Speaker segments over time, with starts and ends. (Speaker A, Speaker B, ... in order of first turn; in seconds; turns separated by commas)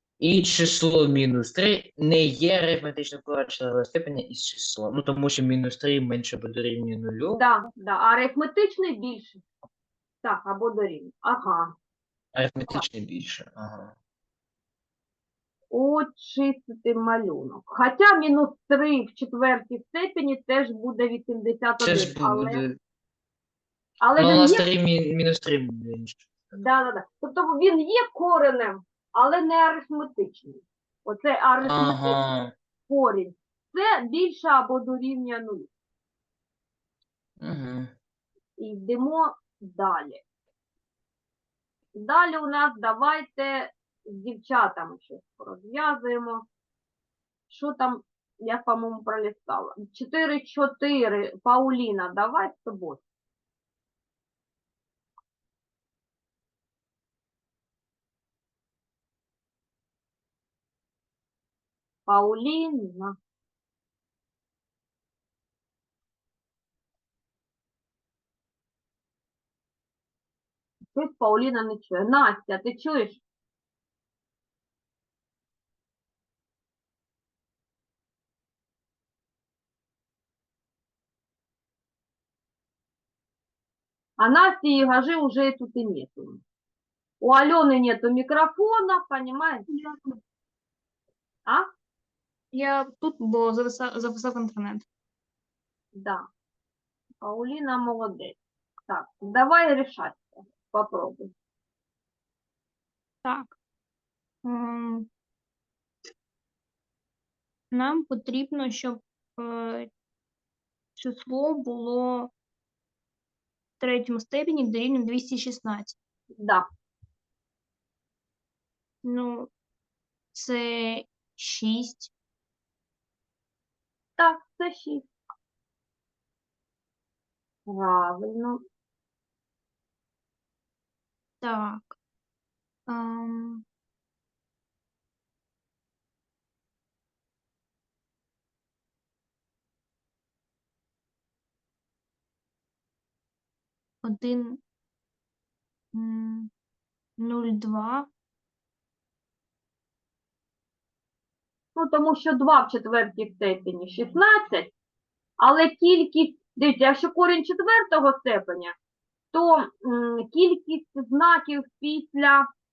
Speaker A: 0.2-7.4, Speaker B: 7.4-9.4, Speaker B: 10.2-11.7, Speaker A: 12.3-13.9, Speaker B: 15.7-22.6, Speaker A: 21.8-22.8, Speaker B: 24.0-24.6, Speaker A: 24.2-26.6, Speaker B: 26.5-32.3, Speaker A: 31.6-32.5, Speaker B: 32.9-35.7, Speaker A: 37.4-37.9, Speaker B: 38.6-40.2, Speaker B: 42.0-46.5, Speaker B: 47.5-53.0, Speaker B: 62.0-63.1, Speaker B: 70.9-73.2, Speaker B: 84.2-86.4, Speaker B: 87.2-89.6, Speaker C: 89.7-90.2, Speaker C: 92.5-94.8, Speaker B: 95.9-96.2, Speaker B: 97.2-98.4, Speaker B: 98.9-101.3, Speaker C: 103.2-103.5, Speaker C: 104.4-105.1, Speaker C: 107.7-109.9, Speaker C: 111.0-112.3, Speaker C: 113.8-116.0, Speaker B: 116.4-116.7, Speaker C: 119.0-119.5, Speaker C: 120.3-122.1, Speaker B: 124.2-125.0, Speaker B: 127.7-128.6, Speaker C: 131.4-131.9, Speaker C: 132.9-133.6, Speaker C: 144.0-144.6, Speaker C: 145.9-146.5, Speaker C: 147.2-148.1, Speaker B: 151.7-154.7, Speaker B: 155.4-158.7, Speaker B: 159.3-162.5